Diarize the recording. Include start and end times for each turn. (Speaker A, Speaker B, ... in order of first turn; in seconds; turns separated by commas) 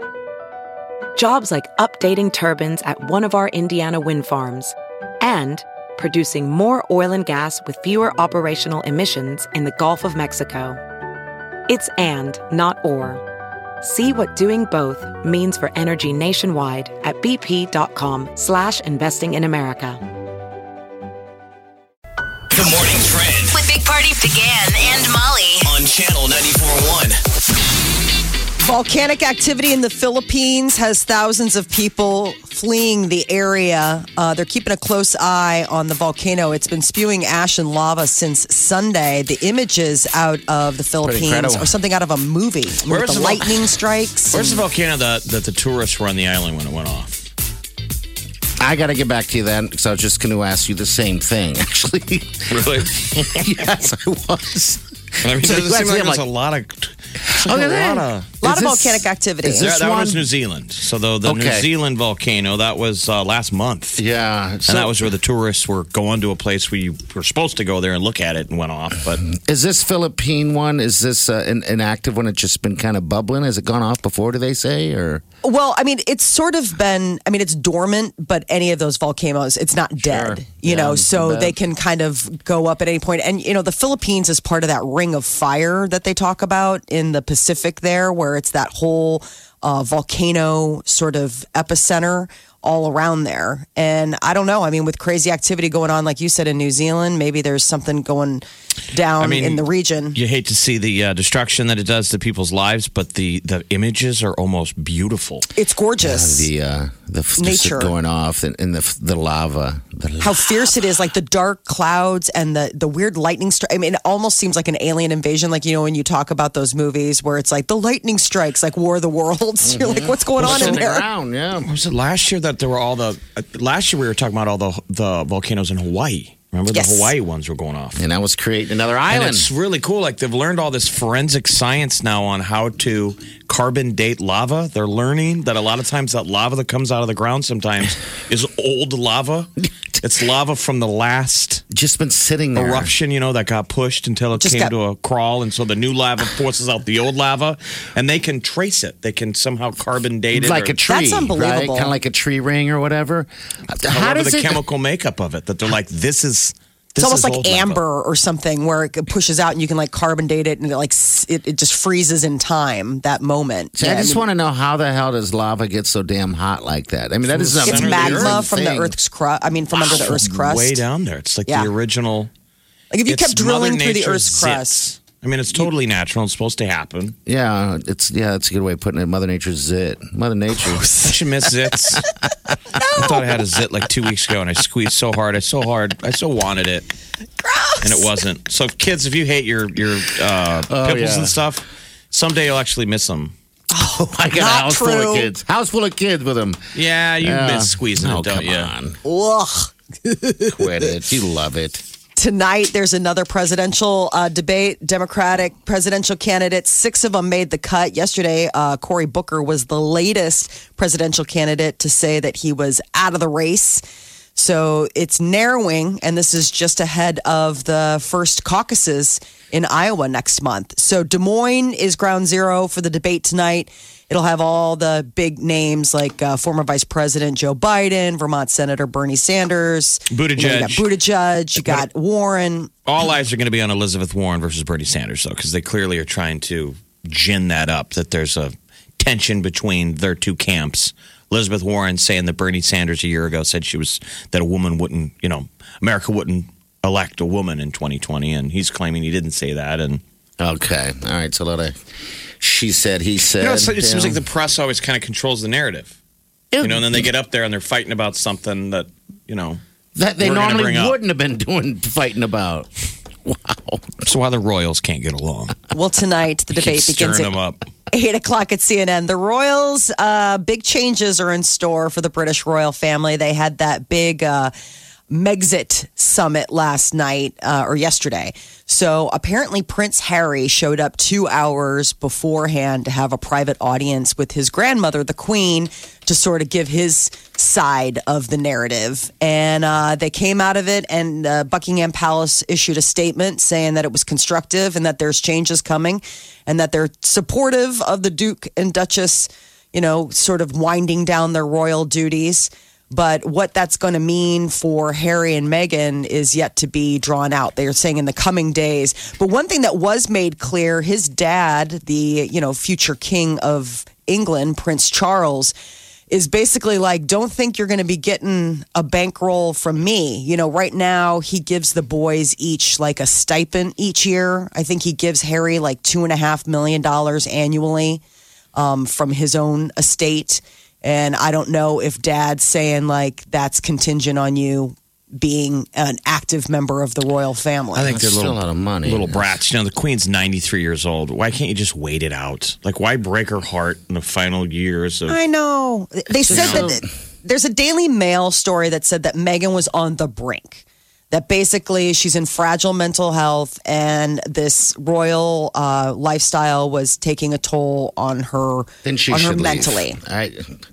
Speaker A: 1.1-10.8, Speaker A: 11.7-13.2, Speaker A: 13.8-20.0, Speaker B: 22.5-23.6, Speaker C: 23.5-25.7, Speaker B: 25.6-27.2, Speaker D: 28.6-44.6, Speaker E: 41.0-41.7, Speaker F: 42.8-43.7, Speaker F: 44.3-47.2, Speaker E: 48.6-56.2, Speaker F: 52.5-53.1, Speaker F: 55.2-58.4, Speaker E: 57.3-60.2, Speaker D: 58.4-59.7, Speaker F: 59.6-64.0, Speaker E: 61.2-61.7, Speaker E: 64.0-65.1, Speaker F: 64.7-69.2, Speaker E: 69.2-75.2, Speaker D: 75.4-100.2, Speaker E: 80.0-81.5, Speaker F: 99.2-105.5, Speaker D: 105.5-106.5, Speaker E: 106.0-110.6, Speaker D: 107.4-107.9, Speaker D: 110.2-121.0, Speaker E: 119.6-121.7, Speaker F: 120.4-120.8, Speaker F: 121.6-128.0, Speaker D: 126.7-127.1, Speaker E: 128.0-129.5, Speaker F: 129.1-141.6, Speaker E: 141.7-142.9, Speaker F: 142.5-150.8, Speaker D: 144.3-144.7, Speaker E: 150.3-154.6, Speaker D: 150.8-151.9, Speaker F: 153.9-157.8, Speaker D: 157.0-164.3, Speaker E: 163.8-168.9, Speaker F: 167.2-168.4, Speaker D: 167.6-170.8, Speaker F: 169.7-172.3, Speaker D: 171.4-171.7, Speaker D: 172.9-174.9, Speaker F: 173.1-177.1, Speaker E: 177.2-180.8, Speaker D: 180.6-181.4, Speaker F: 181.0-182.0, Speaker D: 182.7-183.3, Speaker F: 182.9-186.9, Speaker D: 187.4-188.1, Speaker F: 187.8-193.3, Speaker E: 190.7-191.4, Speaker D: 193.7-195.3, Speaker E: 194.0-196.6, Speaker F: 196.7-198.7, Speaker E: 197.2-199.0, Speaker D: 199.0-200.9, Speaker E: 200.5-201.8, Speaker D: 202.1-213.8, Speaker D: 214.3-232.7, Speaker F: 230.1-230.9, Speaker F: 231.6-231.8, Speaker F: 232.8-250.0, Speaker E: 250.4-251.7, Speaker E: 252.4-254.2, Speaker F: 253.2-255.9, Speaker E: 256.5-257.0, Speaker F: 256.6-259.6, Speaker E: 259.9-262.7, Speaker F: 260.2-261.0, Speaker E: 263.2-263.9, Speaker F: 264.0-265.6, Speaker D: 265.7-267.4, Speaker F: 266.5-267.6, Speaker D: 267.9-274.5, Speaker D: 275.1-315.5, Speaker D: 316.1-328.0, Speaker D: 328.5-337.9, Speaker F: 337.7-345.2, Speaker E: 337.8-339.3, Speaker D: 345.1-360.0, Speaker F: 346.1-346.7, Speaker E: 346.3-346.8, Speaker E: 358.8-360.5